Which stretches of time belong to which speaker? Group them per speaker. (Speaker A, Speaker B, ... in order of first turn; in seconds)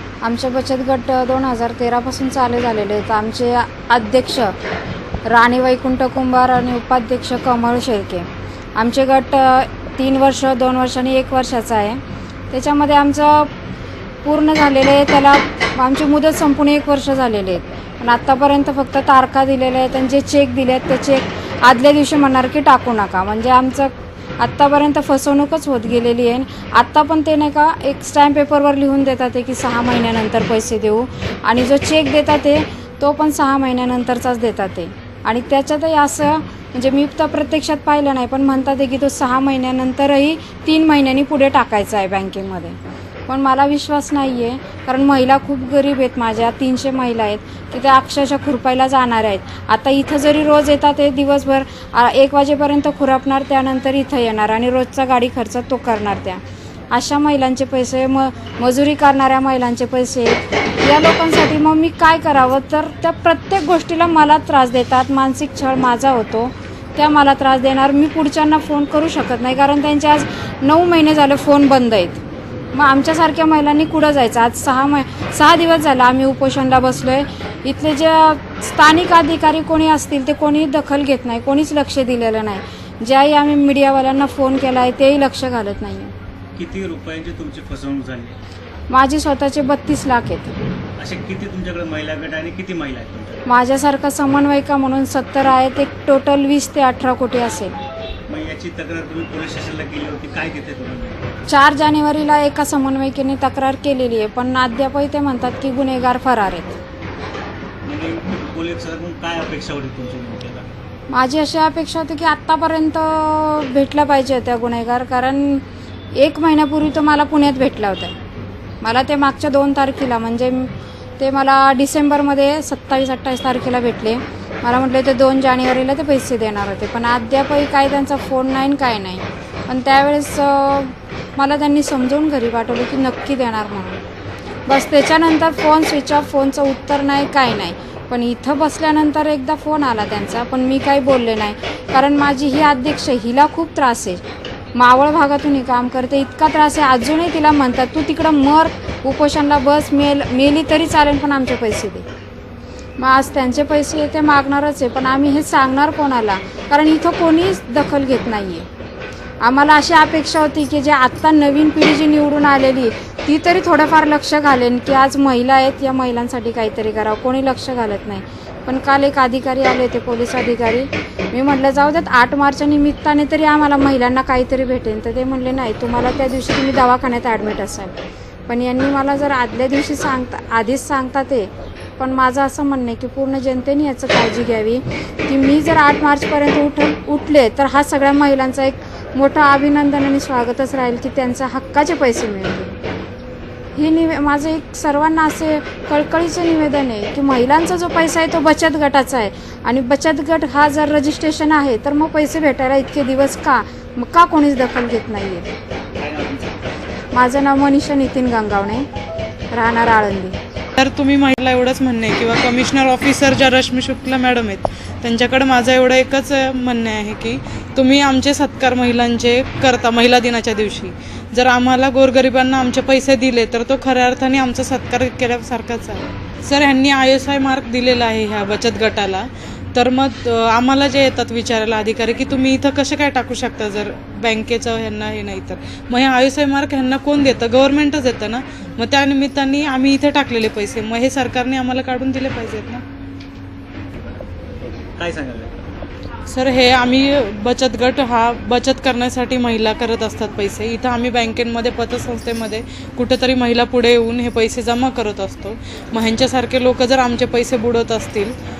Speaker A: 0.2-4.5, 5.3-13.5, 14.2-42.8, 43.3-72.2, 72.7-86.1, 88.9-90.5, 93.5-97.8, 101.5-106.8, 111.1-115.6, 116.2-118.2, 118.8-134.0, 134.7-144.2, 144.8-152.1, 153.0-158.7, 159.4-178.0, 178.5-192.8, 193.7-205.5, 207.1-208.9, 209.5-210.4
Speaker B: 86.6-88.4, 91.0-93.5, 98.3-101.2, 107.9-110.7, 206.0-206.6, 244.6-245.5
Speaker C: 210.8-242.8, 246.3-258.4